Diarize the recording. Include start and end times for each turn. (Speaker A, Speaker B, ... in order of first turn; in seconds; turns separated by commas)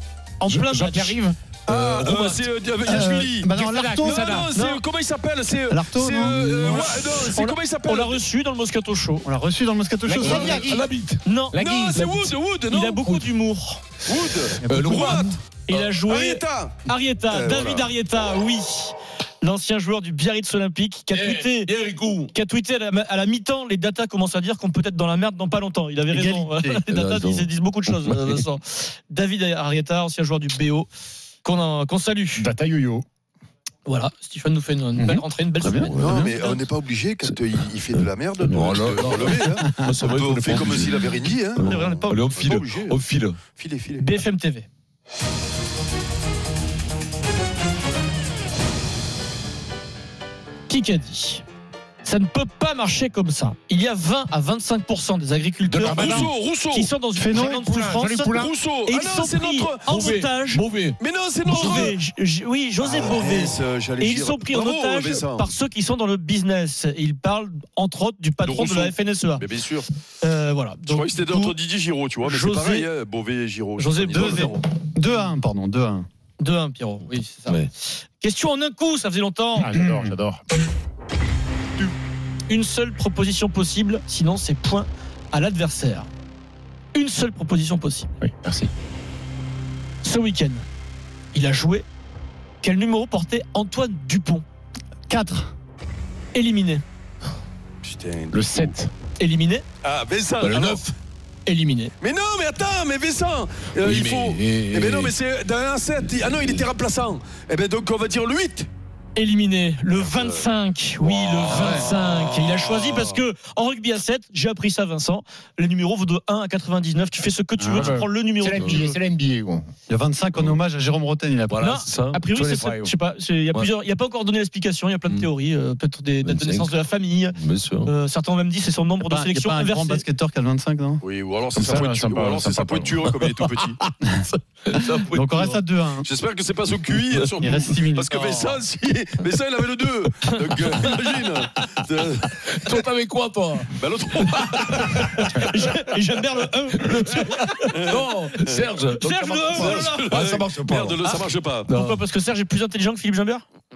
Speaker A: 0.4-1.2, Speaker B: 0.5-1.4, Speaker C: 1.6-8.2, Speaker D: 1.8-2.3, Speaker E: 2.8-4.3, Speaker B: 3.5-4.5, Speaker A: 4.5-4.8, Speaker E: 5.7-7.0, Speaker A: 7.2-9.3, Speaker E: 9.2-10.8, Speaker B: 10.0-10.9, Speaker D: 10.2-11.2, Speaker C: 10.2-10.5, Speaker A: 11.2-12.0, Speaker B: 11.5-12.3, Speaker C: 11.6-13.2, Speaker A: 12.7-13.8, Speaker C: 14.0-17.9, Speaker E: 14.6-15.3, Speaker D: 14.6-15.9, Speaker A: 15.7-21.7, Speaker D: 21.1-22.3, Speaker A: 22.3-30.9, Speaker E: 26.1-26.8, Speaker D: 26.9-28.4, Speaker A: 31.4-32.5, Speaker B: 32.4-33.0, Speaker A: 33.9-36.5, Speaker E: 35.0-35.9, Speaker D: 35.6-36.4, Speaker C: 36.0-41.6, Speaker D: 38.0-43.4, Speaker E: 39.6-40.0, Speaker A: 41.6-42.3, Speaker C: 42.3-43.0, Speaker C: 43.5-44.2, Speaker A: 44.0-44.7, Speaker A: 50.7-51.4, Speaker A: 52.0-60.6, Speaker D: 55.7-56.3, Speaker B: 55.9-56.3, Speaker C: 55.9-56.9, Speaker E: 57.2-57.5, Speaker B: 57.3-58.5, Speaker C: 58.3-60.1, Speaker D: 59.9-61.9, Speaker C: 61.0-61.9, Speaker A: 61.4-69.5, Speaker C: 62.8-65.5, Speaker C: 68.4-69.9, Speaker A: 70.2-71.6, Speaker C: 70.9-74.6, Speaker A: 72.2-72.9, Speaker A: 73.8-74.6, Speaker E: 74.1-76.1, Speaker A: 76.4-77.6, Speaker A: 78.2-79.7, Speaker B: 79.5-80.4, Speaker E: 79.7-80.1, Speaker A: 82.5-86.1, Speaker A: 86.9-88.1, Speaker B: 88.2-88.7, Speaker A: 90.0-90.6, Speaker A: 91.3-91.8, Speaker A: 92.6-94.4, Speaker E: 95.1-95.5, Speaker A: 96.3-96.8, Speaker C: 97.8-98.8, Speaker B: 98.3-98.9, Speaker A: 99.2-99.6, Speaker C: 99.8-100.9, Speaker D: 100.4-100.9, Speaker A: 101.5-101.9, Speaker C: 102.0-108.7, Speaker D: 103.8-105.2, Speaker A: 109.1-119.0, Speaker C: 109.9-110.5, Speaker C: 111.0-113.0, Speaker E: 117.6-117.9, Speaker B: 117.7-119.7, Speaker D: 118.5-118.9, Speaker E: 119.9-121.7, Speaker D: 121.5-122.9, Speaker A: 121.6-130.1, Speaker D: 126.2-126.7, Speaker D: 127.3-127.9, Speaker E: 129.1-131.0, Speaker C: 131.0-133.8, Speaker B: 131.5-133.1, Speaker D: 134.6-135.6, Speaker E: 135.1-136.1, Speaker C: 136.0-142.4, Speaker E: 137.4-138.2, Speaker D: 142.4-145.5, Speaker C: 143.7-145.0, Speaker A: 144.9-147.7, Speaker D: 146.8-152.0, Speaker C: 147.7-148.7, Speaker A: 148.9-150.1, Speaker C: 149.5-151.7, Speaker A: 151.7-153.4